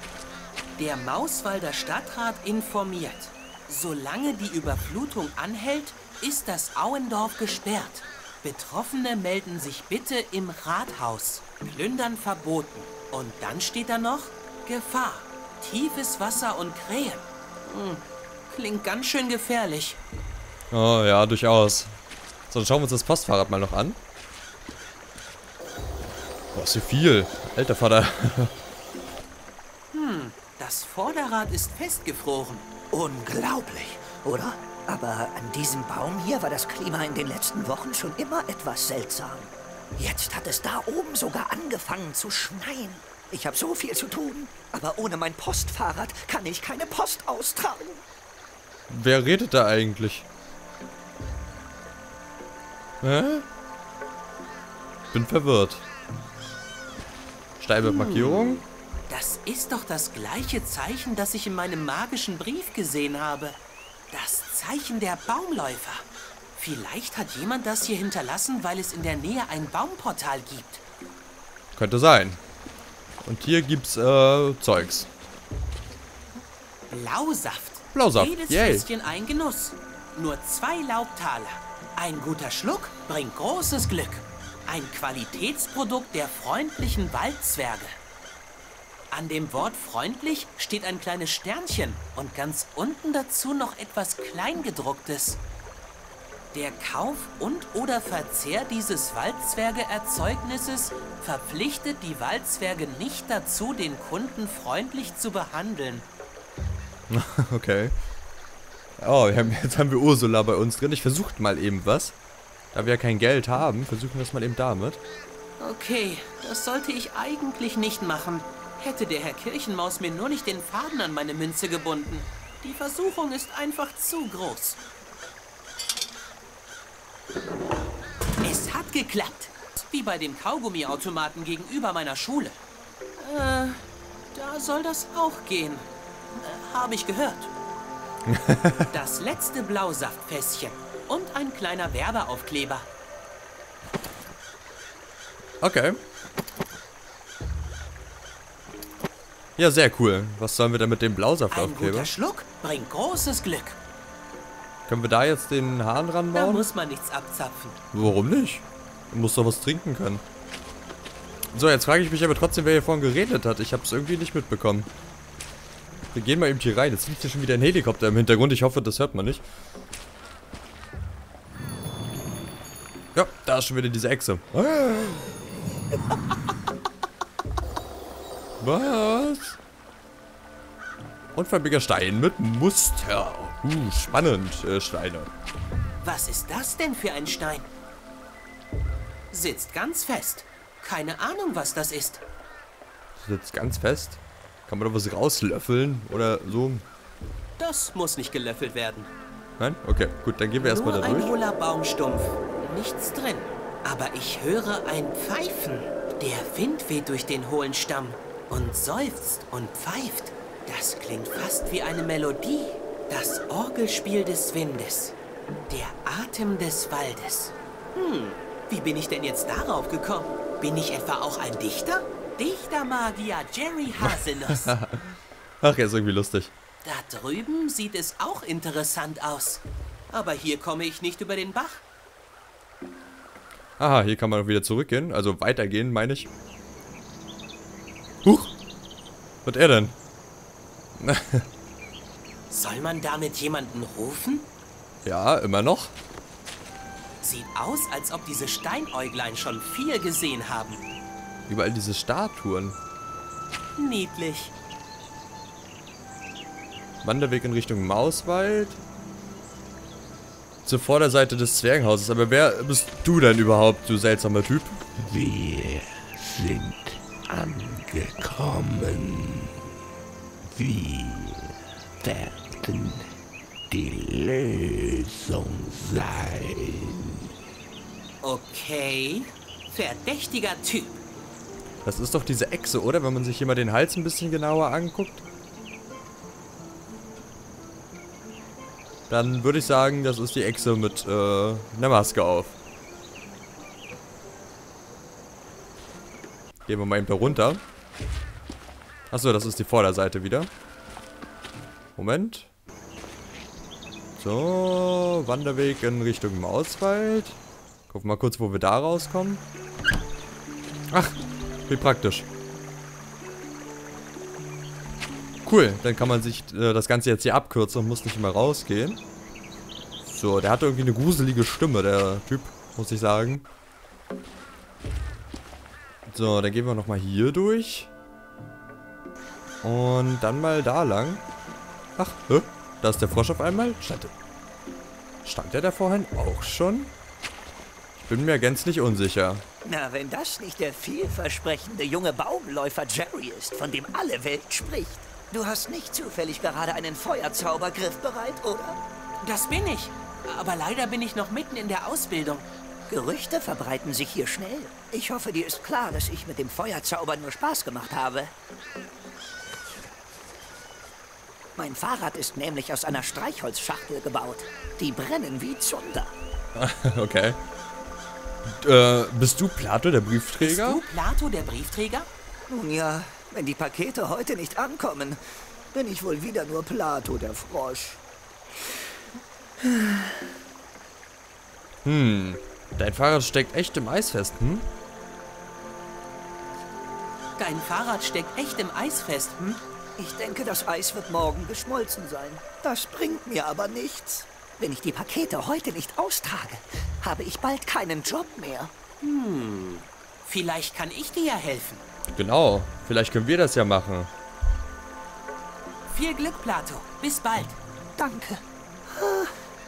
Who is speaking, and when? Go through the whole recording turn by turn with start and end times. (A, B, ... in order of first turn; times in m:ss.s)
0:00.8-0:20.0 A
0:20.7-0:21.9 B
0:22.5-0:24.0 B
0:26.5-0:28.5 B
0:29.9-0:32.7 A
0:32.9-0:48.0 C
0:48.9-0:50.2 B
0:53.0-0:53.4 B
0:55.1-0:55.8 B
0:57.6-0:58.6 B
0:57.8-1:03.6 A
1:04.1-1:10.8 A
1:11.8-1:12.4 B
1:13.2-1:15.1 B
1:16.9-1:28.0 A
1:17.9-1:18.9 B
1:29.1-1:35.4 A
1:36.5-1:46.1 A
1:47.1-1:47.9 B
1:49.0-1:52.1 B
1:52.7-1:55.0 B
1:55.6-2:04.8 A
2:08.4-2:12.6 A
2:13.2-2:13.8 A
2:14.3-2:17.5 A
2:18.3-2:18.8 B
2:18.9-2:22.9 A
2:25.6-2:26.0 B
2:29.6-2:32.1 B
2:31.5-2:33.8 A
2:34.9-2:36.7 B
2:36.3-2:37.8 A
2:37.9-2:40.2 B
2:41.5-2:44.9 B
2:46.1-2:49.4 B
2:53.2-2:55.3 B
2:58.6-2:59.6 B
3:01.4-3:05.3 B
3:06.0-3:07.7 A
3:09.3-3:12.2 A
3:13.2-3:16.8 B
3:17.6-3:19.1 A
3:19.6-3:21.4 B
3:20.6-3:35.2 A
3:35.7-3:44.7 A
3:44.7-3:46.5 B
3:46.8-3:51.8 A
3:53.8-3:56.3 B
3:58.2-3:58.5 B
3:59.4-4:00.0 B
4:01.0-4:01.4 B
4:02.5-4:04.5 A
4:05.0-4:05.9 B
4:07.2-4:10.8 A
4:11.5-4:12.8 B
4:13.8-4:14.5 A
4:17.0-4:18.8 B
4:20.6-4:24.8 B
4:25.0-4:29.5 D
4:30.5-4:31.5 D
4:32.0-4:33.1 D
4:33.7-4:37.1 D
4:38.2-4:41.0 A
4:41.8-4:45.2 B
4:49.1-4:52.6 B
4:56.7-4:57.6 B
4:59.1-5:00.5 B
5:02.0-5:02.5 B
5:04.2-5:07.4 B
5:07.9-5:09.4 B
5:10.9-5:11.2 B
5:11.7-5:12.3 B
5:15.4-5:19.0 B
5:20.1-5:23.4 B
5:26.1-5:27.9 B
5:29.6-5:31.2 B
5:32.0-5:34.1 B
5:35.2-5:36.9 B
5:38.0-5:39.4 B
5:39.6-5:48.8 C
5:49.2-5:52.5 A
5:52.9-5:58.3 C
6:01.6-6:06.1 C
6:06.6-6:07.4 B
6:08.5-6:10.8 B
6:10.4-6:12.1 A
6:12.5-6:15.2 C
6:15.7-6:18.0 C
6:19.6-6:20.2 C
6:21.8-6:24.7 B
6:27.4-6:29.6 A
6:30.0-6:38.7 C
6:39.0-6:41.8 A
6:42.2-6:44.1 B
6:45.9-6:47.6 A
6:48.0-6:49.3 C